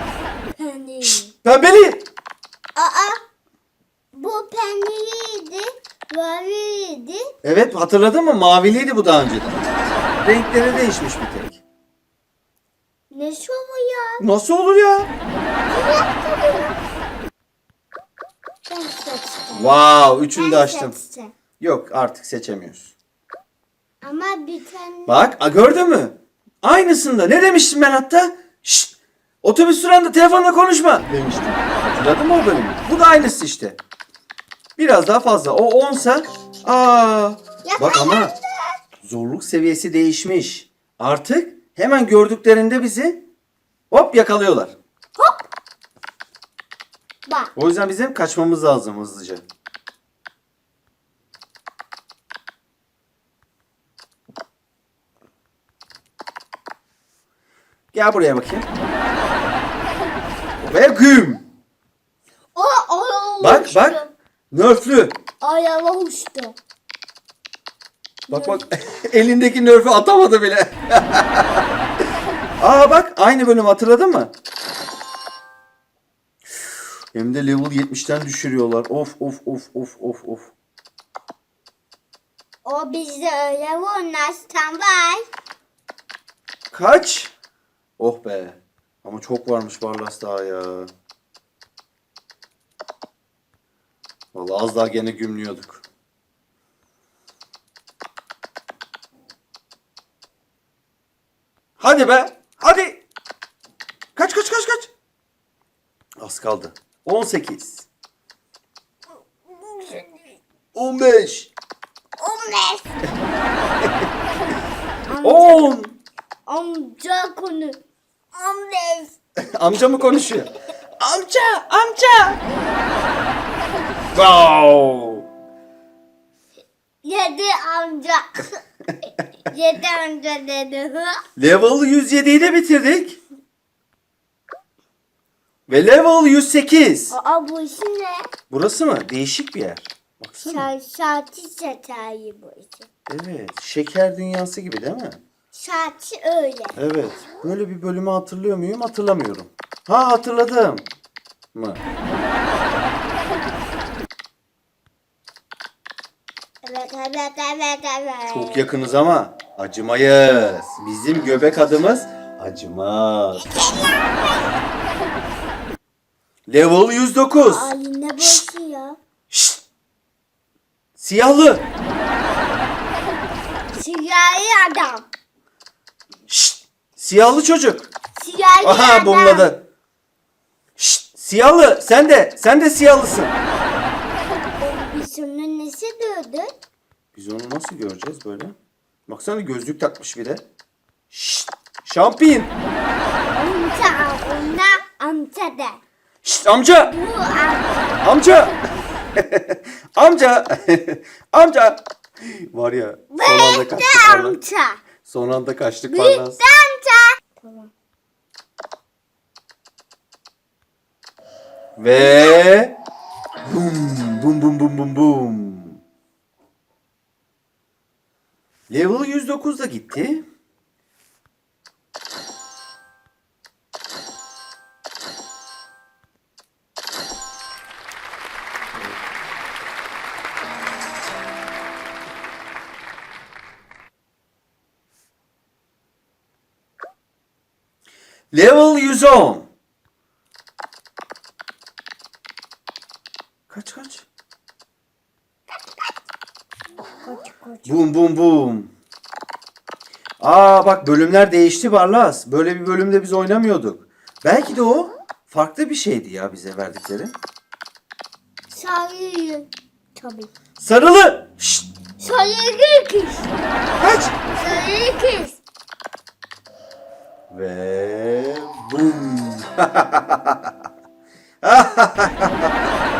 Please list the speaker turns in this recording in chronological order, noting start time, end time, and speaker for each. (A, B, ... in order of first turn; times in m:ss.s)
0:00.6-0:01.3 A
0:01.1-0:02.0 B
0:02.8-0:03.2 A
0:04.1-0:07.2 A
0:07.4-0:09.6 B
0:10.2-0:11.6 B
0:13.1-0:14.2 A
0:14.2-0:15.1 B
0:15.7-0:16.8 A
0:18.7-0:19.8 A
0:19.5-0:20.9 B
0:20.3-0:21.3 A
0:21.6-0:22.9 B
0:24.0-0:25.2 A
0:25.1-0:33.8 B
0:34.8-0:38.3 B
0:37.6-0:38.8 A
0:39.0-0:43.2 B
0:43.9-0:44.7 B
0:45.2-0:45.4 A
0:47.3-0:47.5 A
0:47.6-0:49.4 B
0:57.9-0:58.7 B
1:00.6-1:01.4 B
1:02.5-1:04.1 A
1:03.4-1:04.0 B
1:04.5-1:05.2 B
1:05.4-1:06.6 A
1:08.3-1:08.6 A
1:08.3-1:11.6 B
1:12.6-1:14.3 B
1:17.1-1:20.5 B
1:22.6-1:25.3 A
1:26.7-1:27.3 B
1:28.0-1:30.9 B
1:34.3-1:35.8 B
1:41.8-1:43.0 B
1:44.2-1:44.9 B
1:46.2-1:47.9 B
1:49.5-1:50.3 A
1:50.7-1:51.5 B
1:52.2-1:52.9 A
1:55.1-1:55.7 A
1:55.2-1:55.9 B
1:56.5-1:57.8 A
1:58.3-1:59.2 A
1:59.5-2:02.4 B
2:04.1-2:05.2 B
2:07.0-2:08.6 A
2:09.5-2:11.2 A
2:11.4-2:13.2 B
2:15.7-2:17.1 B
2:17.1-2:18.3 A
2:18.5-2:20.7 B
2:20.4-2:22.9 A
2:23.1-2:25.2 B
2:25.5-2:26.8 A
2:26.8-2:30.8 B
2:31.5-2:31.8 B
2:36.6-2:38.6 A
2:38.3-2:43.5 B
2:43.4-2:44.5 A
2:46.5-2:47.7 B
2:47.4-2:49.0 A
2:49.3-2:49.6 B
2:51.0-2:51.6 B
2:53.7-2:55.0 A
2:56.3-2:57.9 B
2:58.2-2:59.5 A
2:58.6-2:59.6 B
3:00.8-3:03.3 B
3:04.6-3:06.5 A
3:07.1-3:08.5 B
3:09.1-3:10.4 B
3:11.1-3:12.5 B
3:13.3-3:15.8 A
3:16.2-3:16.9 B
3:16.8-3:18.0 A
3:18.0-3:18.6 B
3:19.2-3:24.4 B
3:23.1-3:24.8 A
3:25.0-3:26.4 B
3:25.9-3:27.7 A
3:31.8-3:32.8 B
3:32.0-3:32.2 A
3:33.4-3:35.8 B
3:38.7-3:40.2 B
3:58.3-3:59.5 B
4:03.5-4:04.0 B
4:07.0-4:07.9 A
4:07.6-4:08.7 B
4:10.2-4:17.1 B
4:18.5-4:20.3 A
4:20.6-4:21.7 B
4:22.0-4:23.3 A
4:23.8-4:24.3 B
4:24.3-4:25.4 A
4:27.3-4:30.4 B
4:31.4-4:32.5 B